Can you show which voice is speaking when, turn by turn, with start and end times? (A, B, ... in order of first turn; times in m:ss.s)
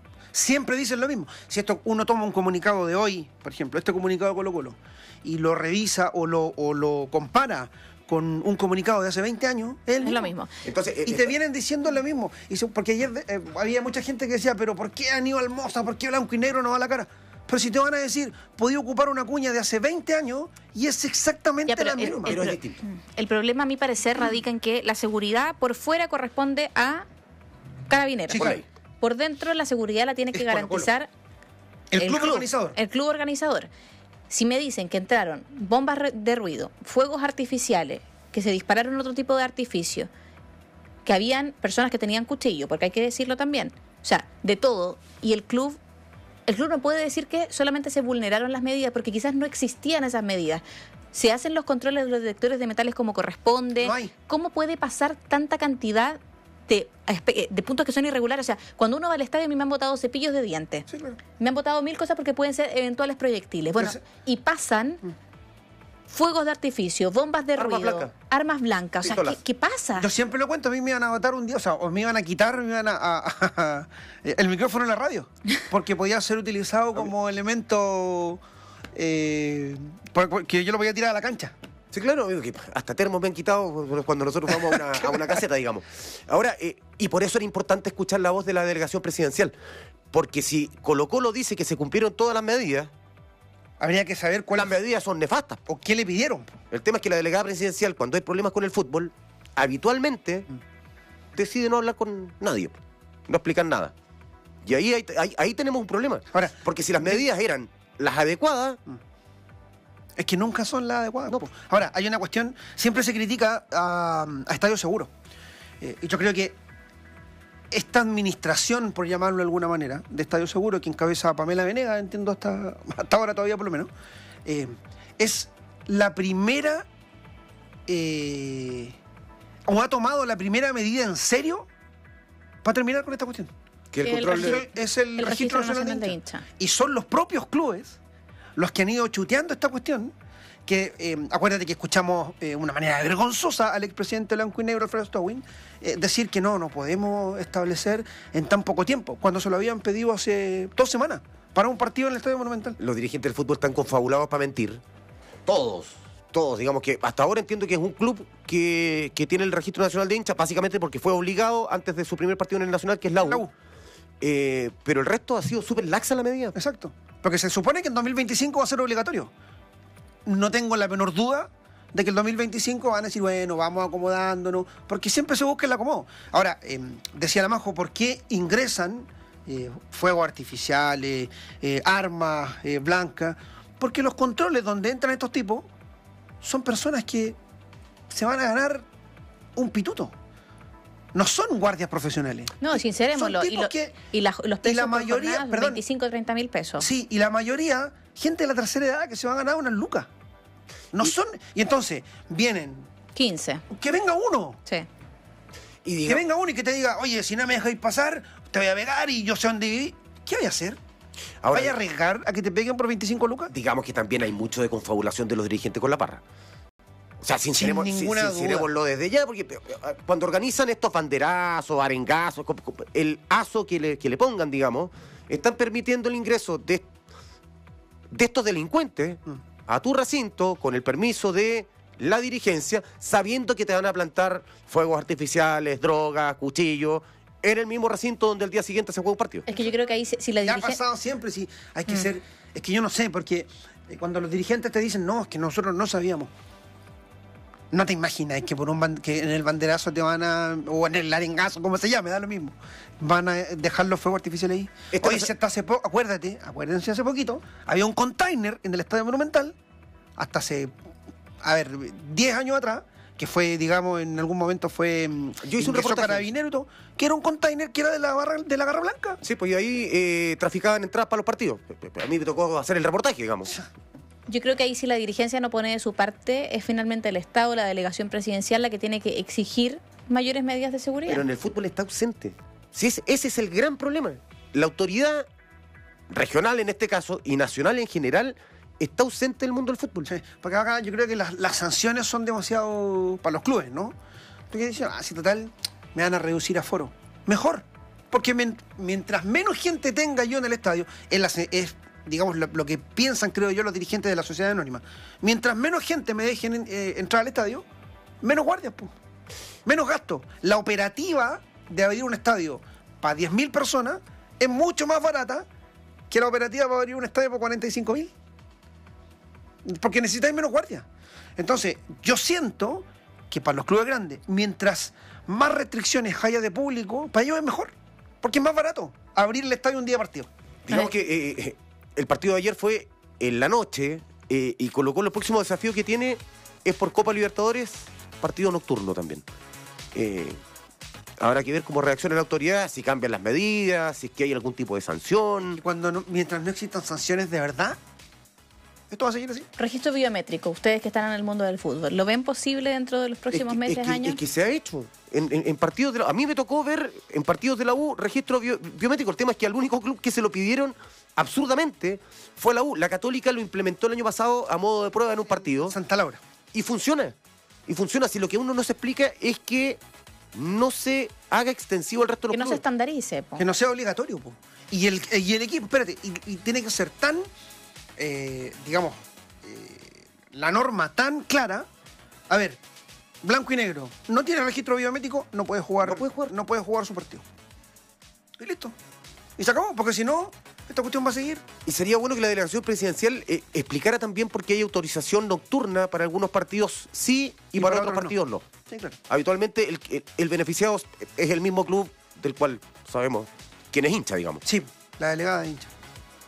0:00.3-0:10.3 A
0:10.0-0:10.5 B
0:10.6-0:11.3 C
0:11.0-0:22.4 A
0:21.7-0:27.0 B
0:22.0-0:22.8 C
0:27.9-0:31.1 B
0:28.3-0:28.6 C
0:28.3-0:28.6 A
0:30.3-0:30.9 A
0:31.9-0:32.8 A
0:32.0-0:33.7 B
0:34.3-0:40.1 B
0:41.0-0:45.8 B
0:46.5-1:00.9 B
0:53.8-0:54.1 A
1:00.9-1:01.2 A
1:01.4-1:05.0 B
1:06.1-1:10.1 B
1:07.6-1:08.1 C
1:09.0-1:09.4 C
1:10.0-1:18.4 A
1:18.9-1:21.5 A
1:21.9-1:29.5 C
1:24.5-1:25.2 A
1:30.1-1:32.9 C
1:33.8-1:34.7 A
1:34.5-1:35.6 C
1:35.7-1:36.6 A
1:36.7-1:40.5 C
1:41.4-1:42.8 C
1:43.3-1:43.9 C
1:44.6-1:48.8 C
1:46.3-1:47.2 A
1:50.2-1:55.1 A
1:55.8-1:56.6 A
1:57.7-2:03.9 A
2:04.4-2:06.8 A
2:07.9-2:08.9 A
2:09.7-2:11.7 A
2:12.6-2:13.5 A
2:13.9-2:14.6 C
2:14.0-2:16.4 B
2:14.2-2:18.0 A
2:18.6-2:20.1 A
2:20.6-2:32.8 A
2:32.8-2:34.8 C
2:35.5-2:43.4 C
2:43.2-2:43.5 A
2:44.2-2:46.5 C
2:46.5-2:49.3 A
2:50.2-3:05.7 A
3:06.4-3:07.4 A
3:08.1-3:08.8 A
3:09.6-3:10.1 A
3:11.1-3:13.9 A
3:12.6-3:16.9 B
3:14.6-3:15.8 A
3:16.8-3:20.1 A
3:20.9-3:22.9 A
3:23.1-3:23.6 B
3:23.7-3:24.6 A
3:25.8-3:26.2 C
3:26.0-3:30.8 A
3:31.4-3:31.7 C
3:31.5-3:33.5 A
3:33.5-3:36.2 C
3:37.2-3:46.8 C
3:37.5-3:38.7 A
3:48.1-3:59.5 C
3:59.5-4:00.8 B
4:00.4-4:06.3 A
4:07.7-4:19.5 A
4:14.9-4:15.3 C
4:20.2-4:20.7 A
4:21.4-4:29.2 A
4:25.4-4:26.3 C
4:29.2-4:33.6 C
4:34.3-4:41.2 B
4:41.1-4:45.2 C
4:46.1-4:50.1 C
4:50.1-4:53.9 A
4:54.5-5:07.6 A
5:08.2-5:08.9 A
5:09.6-5:15.4 A
5:16.1-5:18.1 A
5:19.6-5:20.8 A
5:21.4-5:30.3 A
5:30.7-5:39.2 C
5:39.9-5:40.4 C
5:41.2-5:45.6 C
5:45.6-5:47.8 A
5:48.9-5:49.5 A
5:49.6-5:54.2 B
5:53.3-6:05.7 C
6:05.4-6:06.2 A
6:06.5-6:07.1 C
6:07.7-6:09.8 C
6:10.3-6:12.6 C
6:12.3-6:13.4 B
6:13.4-6:17.3 A
6:18.0-6:21.6 A
6:22.3-6:22.6 A
6:23.2-6:27.2 A
6:25.8-6:26.3 C
6:28.4-6:28.7 A
6:29.4-6:31.4 A
6:31.6-6:38.4 C
6:37.5-6:38.1 A
6:38.7-6:39.0 A
6:39.1-6:44.4 C
6:44.4-6:45.7 A